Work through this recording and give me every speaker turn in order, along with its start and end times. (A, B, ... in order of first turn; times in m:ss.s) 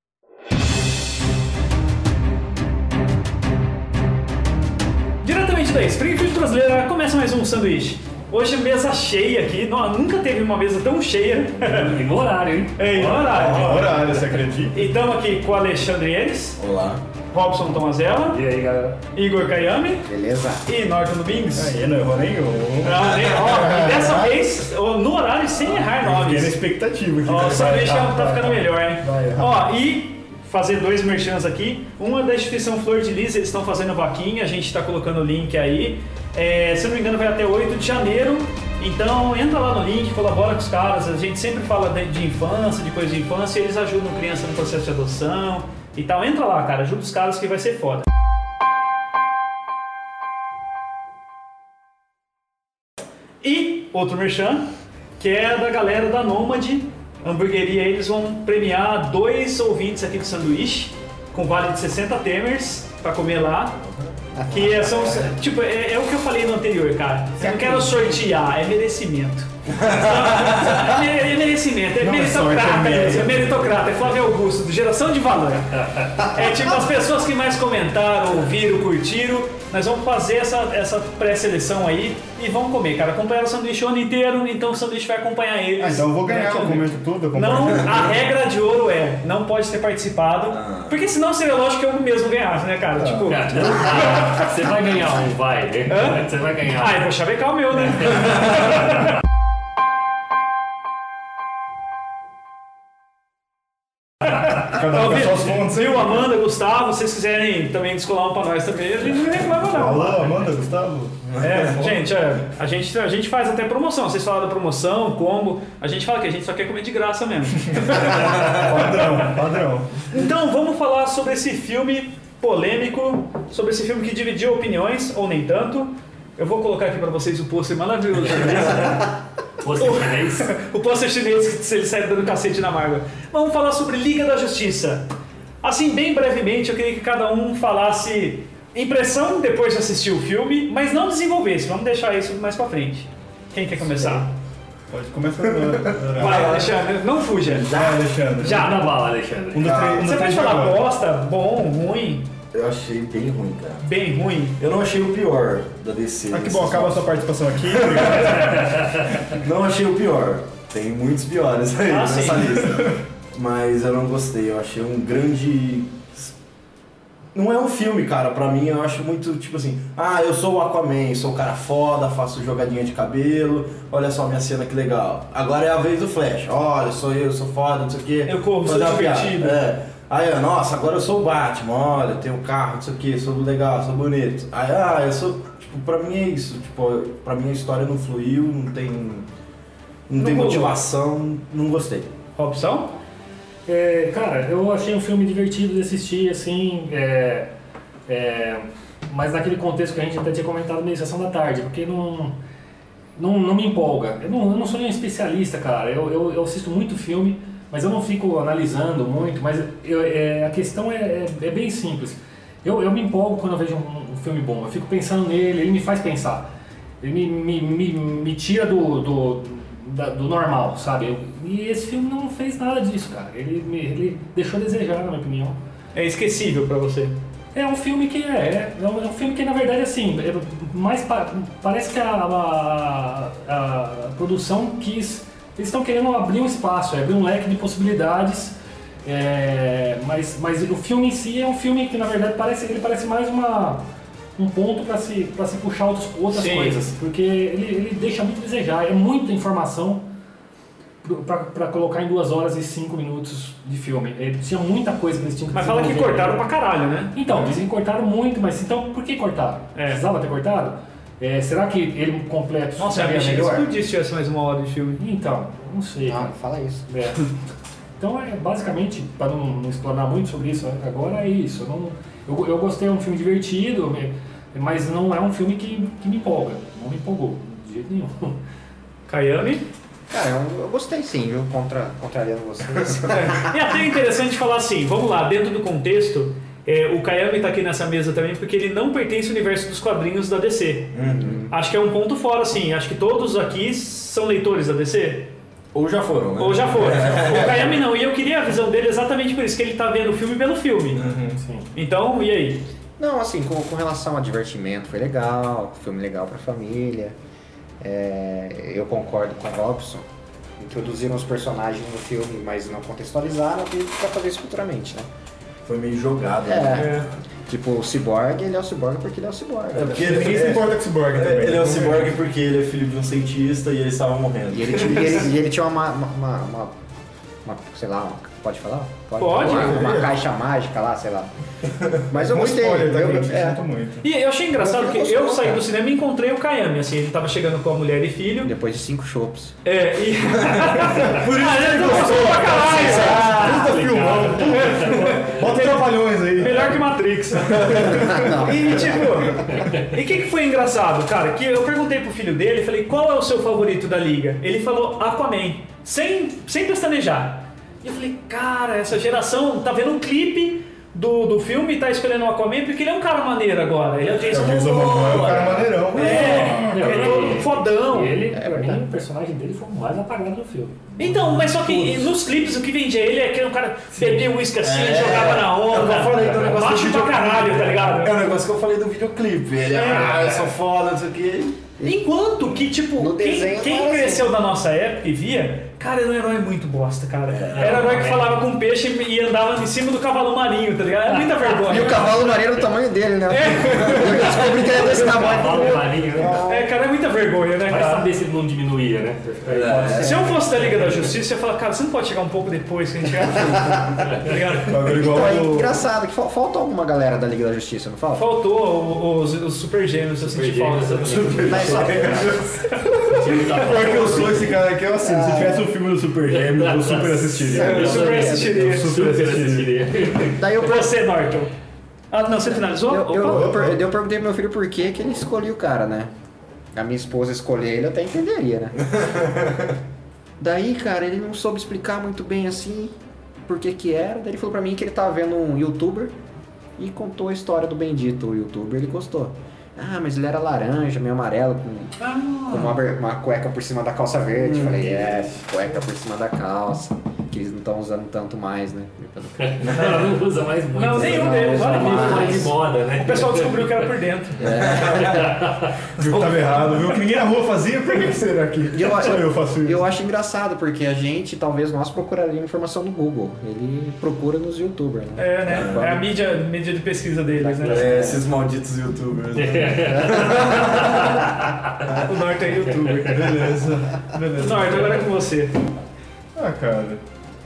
0:05.2-0:12.0 A
0:11.6-0:13.5 B
0:12.8-0:14.1 A
0:13.3-0:13.9 C
0:13.4-0:14.8 D
0:14.7-0:16.6 A
0:16.6-0:17.0 C
0:17.3-0:18.4 A
0:18.3-0:19.0 B
0:19.1-0:20.0 A
0:20.1-0:20.6 E
0:20.6-0:21.8 A
0:21.6-0:24.4 D
0:22.8-0:26.6 A
0:25.6-0:29.5 D
0:27.2-0:48.0 A
0:53.4-1:03.8 A
1:04.3-1:05.3 E
1:04.4-1:34.3 A
1:09.7-1:10.6 C
1:12.0-1:13.8 D
1:25.8-1:28.2 D
1:30.5-1:30.9 C
1:33.0-1:33.3 D
1:33.3-1:37.0 B
1:35.9-1:38.9 A
1:44.2-1:50.4 A
1:44.7-1:46.3 D
1:49.6-1:51.3 D
1:51.3-1:51.8 C
1:51.4-1:59.3 A
1:57.7-2:00.0 D
2:00.1-2:09.1 A
2:09.6-2:10.5 B
2:09.8-2:15.1 A
2:15.6-2:24.3 A
2:24.9-2:26.6 D
2:25.6-2:26.7 C
2:26.2-2:27.7 A
2:27.4-2:28.7 D
2:27.7-2:28.0 C
2:28.4-2:28.8 A
2:28.4-2:29.7 B
2:29.5-2:30.8 D
2:29.6-2:30.0 C
2:30.0-2:32.3 A
2:32.5-2:33.8 C
2:33.8-2:34.6 A
2:34.6-2:37.0 C
2:36.3-2:39.0 D
2:37.7-2:38.3 C
2:39.2-2:46.3 C
2:41.8-2:42.6 A
2:47.3-3:09.2 C
2:58.2-2:59.6 A
3:10.1-3:12.1 C
3:10.2-3:10.8 A
3:12.4-3:13.0 A
3:13.6-3:17.5 B
3:18.1-3:22.4 B
3:23.2-3:36.5 B
3:37.0-3:45.6 B
3:45.9-3:47.2 A
3:47.5-4:10.1 B
4:06.3-4:06.8 A
4:11.0-4:16.4 B
4:15.5-4:17.1 A
4:17.1-4:23.6 B
4:19.7-4:20.0 A
4:22.8-4:25.0 A
4:25.0-4:26.3 B
4:26.0-4:26.9 E
4:26.9-4:27.3 B
4:28.0-4:38.4 B
4:39.1-4:39.6 A
4:40.1-4:43.7 E
4:43.1-4:50.9 A
4:50.9-4:51.4 C
4:51.0-4:51.5 E
4:51.5-4:55.3 A
4:55.7-4:57.8 C
4:56.4-5:01.1 A
5:00.9-5:01.4 C
5:01.3-5:01.7 B
5:01.7-5:02.6 A
5:03.0-5:07.2 E
5:07.8-5:10.0 E
5:10.6-5:15.1 E
5:15.6-5:17.0 C
5:16.4-5:16.9 E
5:16.8-5:17.0 A
5:17.5-5:20.4 E
5:19.7-5:25.3 C
5:19.8-5:22.2 D
5:24.5-5:26.7 E
5:27.4-5:31.3 E
5:29.2-5:29.9 A
5:29.4-5:30.1 D
5:31.8-5:32.0 C
5:32.1-5:33.6 E
5:32.1-5:34.0 D
5:34.0-5:38.5 A
5:34.6-5:35.7 E
5:38.4-5:39.5 E
5:39.6-5:43.5 A
5:40.9-5:46.8 D
5:42.7-5:45.4 B
5:42.7-5:43.8 E
5:44.4-6:08.2 A
5:47.4-5:48.4 D
5:47.7-5:49.4 E
5:49.5-5:49.8 B
6:04.3-6:07.4 D
6:04.3-6:05.6 C
6:05.9-6:12.1 B
6:08.3-6:08.8 E
6:11.0-6:18.1 A
6:13.9-6:14.2 B
6:14.6-6:21.6 C
6:16.1-6:16.7 B
6:19.7-6:20.4 A
6:21.8-6:32.2 A
6:23.0-6:24.3 E
6:27.3-6:27.9 C
6:27.5-6:28.4 B
6:31.1-6:36.7 E
6:31.7-6:32.0 B
6:33.3-6:34.7 A
6:34.0-6:36.4 B
6:36.4-6:38.1 A
6:37.7-6:41.1 B
6:39.5-6:40.2 C
6:39.8-6:40.4 E
6:40.0-6:44.9 A
6:43.6-6:44.0 E
6:44.1-6:44.3 B
6:44.7-6:45.8 D
6:44.9-6:48.2 E
6:48.1-6:51.6 A
6:50.2-6:54.5 B
6:51.1-6:52.6 C
6:51.4-6:52.4 E
6:53.6-6:59.8 D
6:53.9-6:54.4 E
6:55.0-6:55.7 E
6:56.3-7:00.4 B
6:57.5-6:58.6 E
6:57.6-6:58.9 A
7:00.4-7:01.0 E
7:00.5-7:01.5 A
7:02.1-7:03.6 A
7:02.5-7:06.1 E
7:03.2-7:03.8 D
7:06.7-7:08.9 E
7:08.9-7:09.7 C
7:10.4-7:16.1 E
7:16.8-7:22.0 E
7:22.0-7:22.8 A
7:22.5-7:29.8 E
7:24.4-7:24.8 C
7:24.9-7:25.4 B
7:29.4-7:33.9 B
7:29.6-7:30.0 C
7:30.7-7:34.6 A
7:30.9-7:32.5 E
7:34.4-7:35.4 E
7:34.7-7:35.0 C
7:34.9-7:35.7 B
7:36.0-7:39.9 D
7:38.7-7:46.0 E
7:45.2-7:48.1 A
7:45.5-7:45.9 C
7:47.4-7:48.2 E
7:47.7-7:51.2 C
7:49.3-7:51.7 B
7:51.8-7:53.4 A
7:52.7-7:53.1 B
7:53.0-7:55.1 D
7:54.4-7:55.6 A
7:56.4-7:57.0 D